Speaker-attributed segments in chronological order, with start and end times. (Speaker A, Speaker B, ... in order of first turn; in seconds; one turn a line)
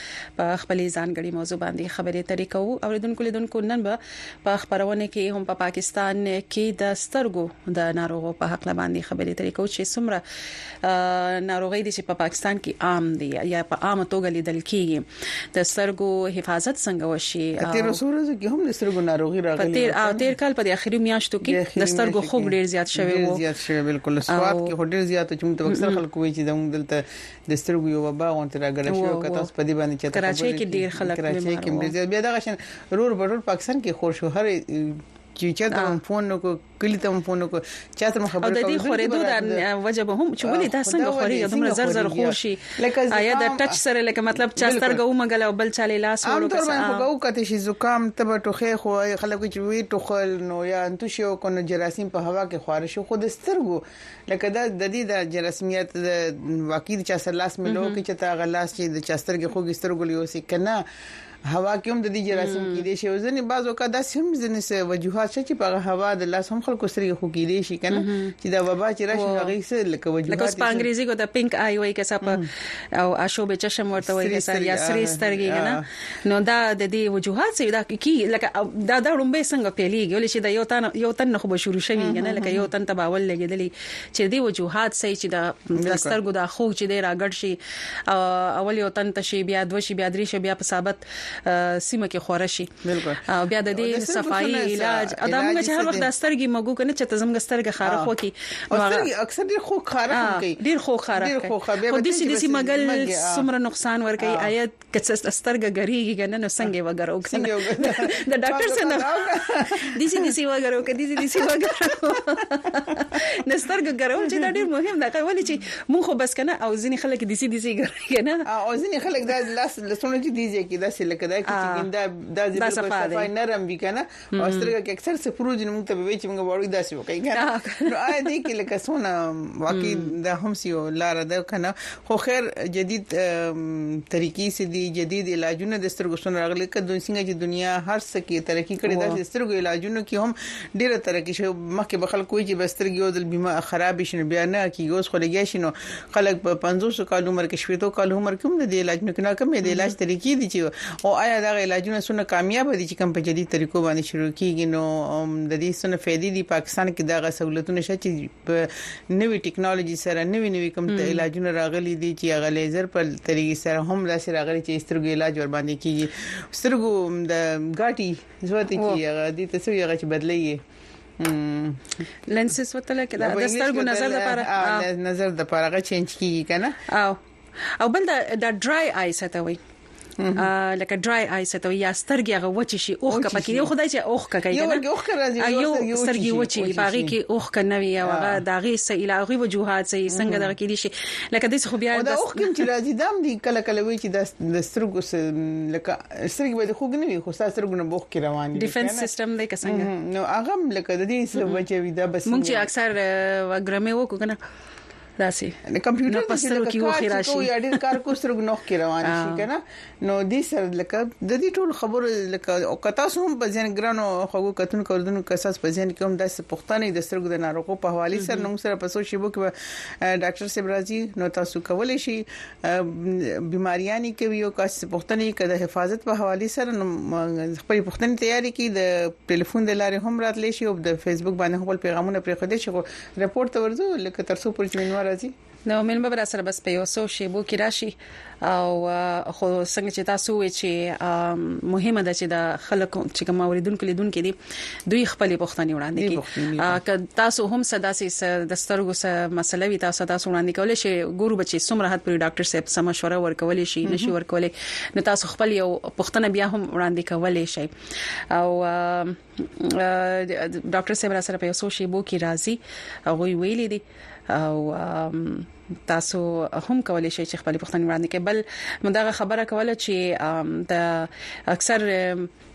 Speaker A: 0.4-10.2
Speaker A: 10.8-18.0
Speaker B: 17.6-20.3
Speaker A: 19.6-23.4
Speaker B: 21.4-39.6
Speaker A: 24.3-24.7
Speaker A: 25.7-26.0
Speaker A: 28.9-29.5
Speaker A: 30.1-31.9
Speaker A: 38.4-47.0
Speaker B: 40.5-43.8
Speaker B: 44.6-45.0
Speaker B: 46.3-60.8
Speaker A: 57.7-58.0
Speaker B: 61.5-70.9
Speaker A: 62.4-62.8
Speaker A: 67.9-68.3
Speaker A: 69.1-69.5
Speaker A: 70.3-72.4
Speaker A: 73.0-87.6
Speaker B: 74.0-75.8
Speaker B: 82.0-82.7
Speaker B: 85.8-86.1
Speaker A: 88.1-92.7
Speaker B: 92.9-96.0
Speaker A: 93.3-99.0
Speaker B: 97.8-98.1
Speaker B: 98.7-100.6
Speaker A: 100.2-109.2
Speaker B: 101.1-103.5
Speaker B: 107.3-110.3
Speaker A: 109.9-118.4
Speaker B: 111.2-112.0
Speaker B: 118.5-170.6
Speaker A: 121.5-121.8
Speaker A: 122.6-123.3
Speaker A: 124.4-124.7
Speaker A: 127.4-127.9
Speaker A: 129.7-130.1
Speaker A: 138.9-139.2
Speaker A: 160.9-161.2
Speaker B: 171.2-171.8
Speaker A: 172.3-174.8
Speaker B: 173.2-176.7
Speaker A: 176.9-177.2
Speaker A: 177.8-179.6
Speaker B: 180.2-180.4
Speaker A: 180.4-184.8
Speaker B: 183.1-183.7
Speaker B: 184.5-187.1
Speaker A: 185.4-192.5
Speaker B: 188.0-188.4
Speaker B: 190.1-190.5
Speaker B: 191.9-199.1
Speaker A: 198.6-199.9
Speaker B: 199.6-202.7
Speaker A: 202.3-204.4
Speaker A: 205.2-205.6
Speaker B: 205.7-219.5
Speaker A: 206.1-207.5
Speaker A: 209.1-209.4
Speaker A: 218.1-218.5
Speaker B: 220.0-235.3
Speaker A: 235.7-244.3
Speaker A: 244.9-257.7
Speaker B: 246.0-246.8
Speaker B: 253.8-254.1
Speaker A: 258.3-272.3